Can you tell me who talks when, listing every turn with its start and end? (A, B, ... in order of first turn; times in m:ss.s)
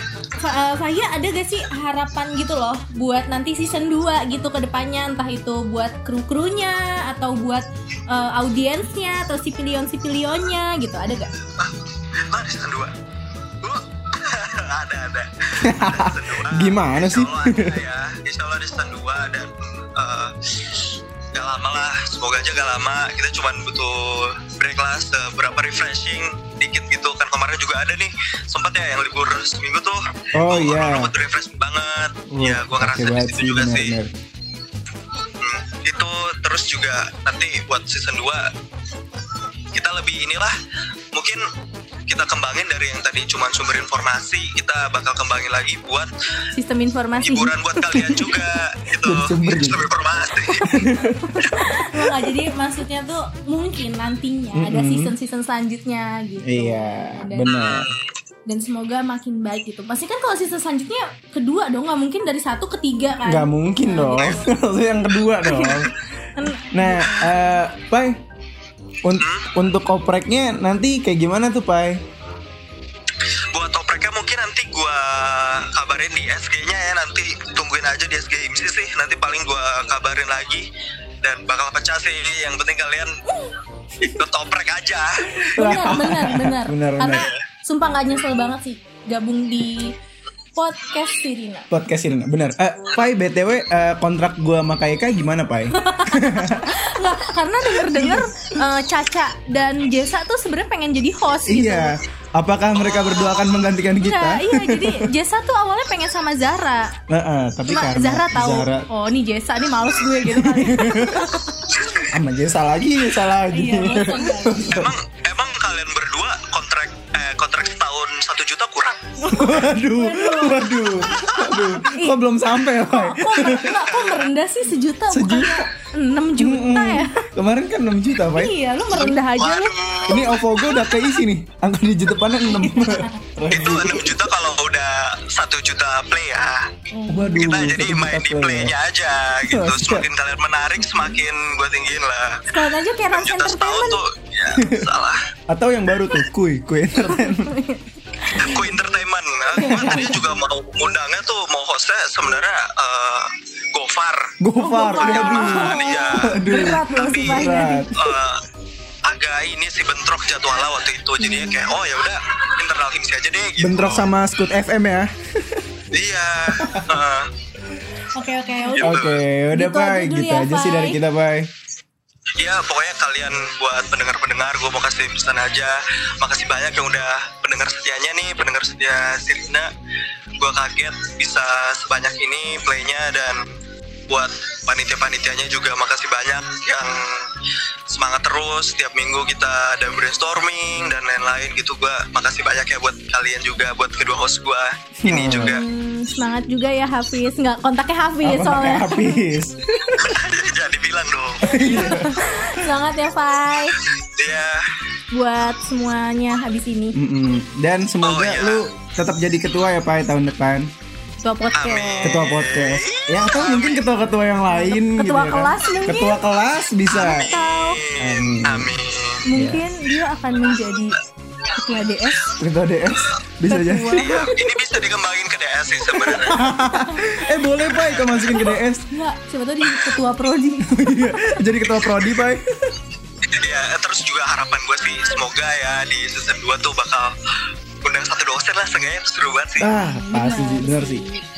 0:00.3-0:11.3 A
0:11.6-0:12.9 B
0:13.6-0:33.9 B
0:15.6-0:17.8 C
0:30.3-0:31.1 C
0:32.3-0:34.1 C
0:35.4-0:38.5 B
0:39.7-0:40.6 B
0:41.1-0:41.4 B
0:42.1-0:46.1 B
0:46.5-0:48.1 A
0:47.2-0:50.7 B
0:49.0-0:49.9 C
0:50.6-0:52.3 C
0:51.2-0:57.6 A
0:54.5-0:55.1 C
0:56.4-0:57.9 C
0:57.4-0:58.0 B
0:58.5-1:04.5 A
1:03.2-1:05.9 C
1:05.4-1:05.8 A
1:06.4-1:07.4 A
1:06.7-1:08.2 C
1:09.0-1:12.0 C
1:09.2-1:09.5 B
1:13.5-1:20.6 B
1:21.2-1:23.1 B
1:24.0-1:25.4 B
1:25.4-1:27.3 C
1:25.4-1:29.9 A
1:27.1-1:27.4 B
1:30.6-1:31.7 A
1:31.7-1:36.8 C
1:35.7-1:41.9 A
1:37.8-1:38.3 C
1:41.4-1:45.1 C
1:44.0-1:47.0 A
1:47.1-1:48.9 C
1:47.7-1:51.7 A
1:50.2-1:51.2 C
1:52.0-1:54.9 C
1:53.5-1:54.8 A
1:54.7-1:59.2 B
1:59.2-2:00.7 A
1:59.3-2:03.8 C
2:01.2-2:02.2 A
2:02.8-2:07.2 A
2:03.9-2:04.2 B
2:05.1-2:05.7 C
2:06.4-2:09.2 C
2:08.3-2:11.2 A
2:09.3-2:10.5 B
2:10.1-2:14.2 C
2:12.5-2:13.2 A
2:13.5-2:16.7 B
2:16.9-2:17.4 A
2:17.1-2:18.8 C
2:17.3-2:22.4 B
2:19.4-2:20.1 C
2:22.5-2:24.0 A
2:23.1-2:25.2 B
2:24.5-2:24.9 C
2:25.5-2:27.5 C
2:27.0-2:28.6 A
2:28.4-2:34.3 B
2:29.5-2:30.2 A
2:29.6-2:30.2 C
2:34.4-2:38.1 C
2:34.6-2:37.9 A
2:35.0-2:38.4 B
2:39.0-2:44.1 B
2:41.2-2:41.6 A
2:43.6-2:45.7 C
2:45.9-2:47.3 B
2:46.6-2:46.8 C
2:48.1-2:49.0 A
2:48.8-2:49.2 B
2:48.8-2:51.5 C
2:49.5-2:51.0 A
2:52.4-2:59.7 B
3:00.4-3:03.4 B
3:04.1-3:07.3 B
3:07.9-3:15.6 B
3:15.0-3:15.6 C
3:15.4-3:19.2 A
3:18.2-3:20.2 C
3:20.0-3:21.5 B
3:21.4-3:22.6 C
3:21.5-3:23.8 A
3:24.0-3:24.6 B
3:25.1-3:27.0 A
3:26.9-3:30.7 C
3:28.0-3:28.6 B
3:31.2-3:32.2 A
3:31.5-3:33.8 B
3:32.0-3:37.3 C
3:34.5-3:36.2 A
3:36.9-3:39.2 B
3:36.9-3:37.8 A
3:38.0-3:38.8 C
3:39.2-3:42.3 A
3:39.3-3:39.6 C
3:42.4-3:44.1 C
3:43.5-3:44.4 A
3:43.9-3:46.5 B
3:46.0-3:48.8 C
3:46.8-3:47.4 A
3:47.8-3:48.2 B
3:48.3-3:51.3 A
3:50.6-3:52.7 C
3:53.3-3:57.1 B
3:57.8-3:59.7 B
3:59.6-4:01.0 C
3:59.9-4:01.2 A